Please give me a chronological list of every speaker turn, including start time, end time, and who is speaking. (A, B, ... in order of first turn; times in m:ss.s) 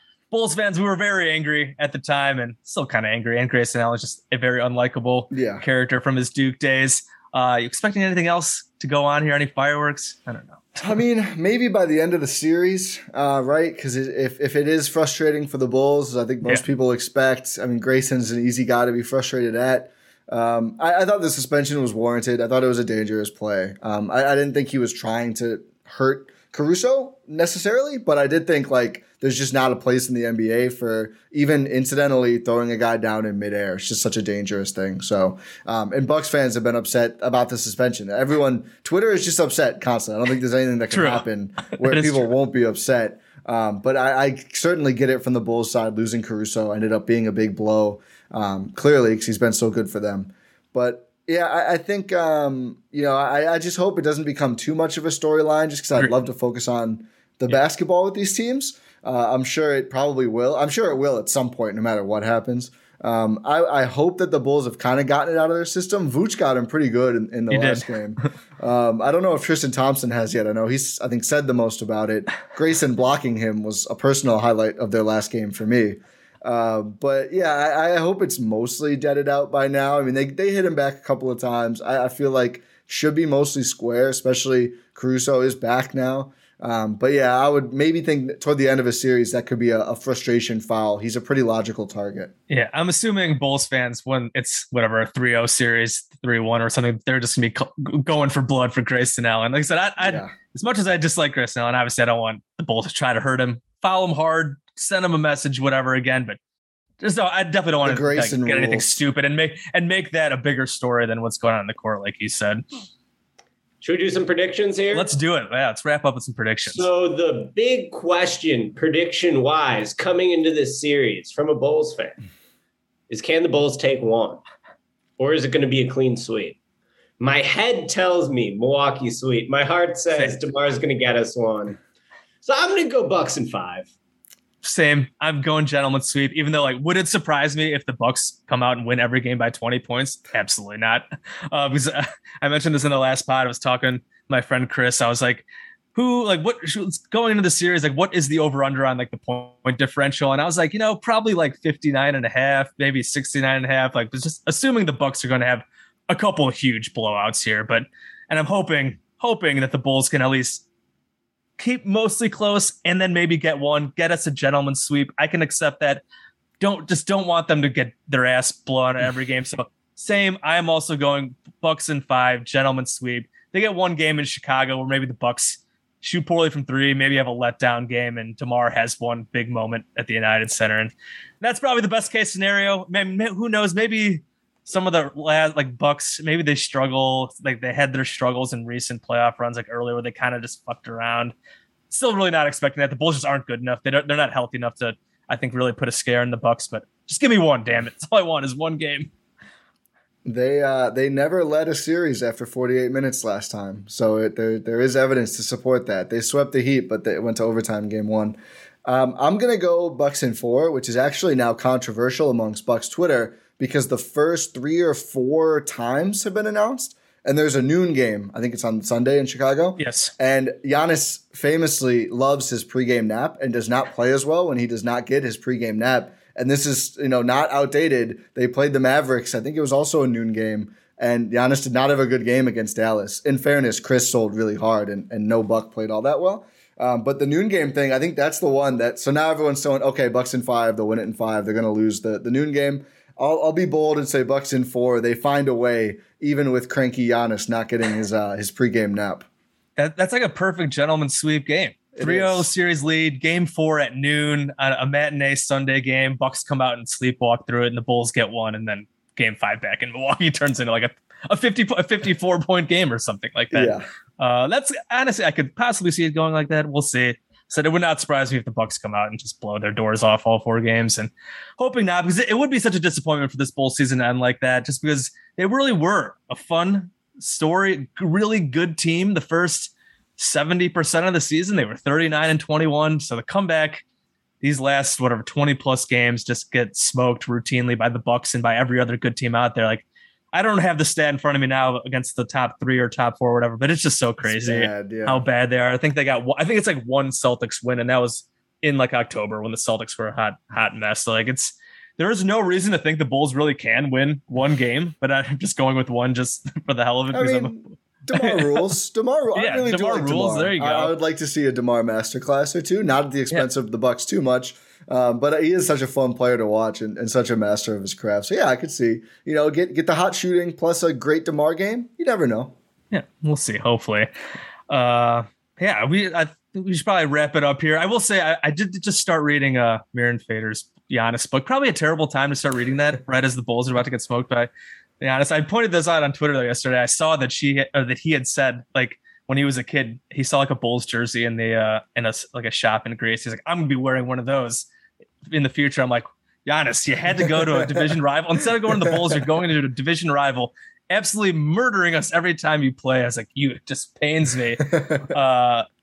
0:00.3-0:10.8 A
0:05.3-0:05.6 B
0:10.8-1:32.3 B
0:40.9-0:41.2 A
0:41.8-0:42.3 A
1:07.5-1:07.9 A
1:32.5-1:46.4 A
1:40.0-1:40.3 B
1:47.0-1:52.6 A
1:47.8-1:49.0 B
1:53.8-1:55.1 C
1:54.9-1:56.9 A
1:56.7-2:02.2 C
2:03.1-2:04.4 C
2:05.2-2:06.6 C
2:07.2-2:11.8 C
2:12.4-2:13.9 C
2:14.6-2:40.6 A
2:41.6-2:46.0 A
2:46.6-3:11.3 A
3:11.9-3:19.1 A
3:20.2-4:09.3 B
3:39.8-3:40.1 A
4:09.8-4:43.8 A
4:12.0-4:12.5 B
4:23.5-4:23.8 B
4:44.4-5:07.6 A
4:54.2-4:55.3 B
5:07.1-5:22.6 B
5:08.2-5:08.7 A
5:09.4-5:10.9 A
5:22.9-5:24.1 A
5:24.7-5:34.5 A
5:35.0-5:44.7 A
5:45.3-5:55.7 A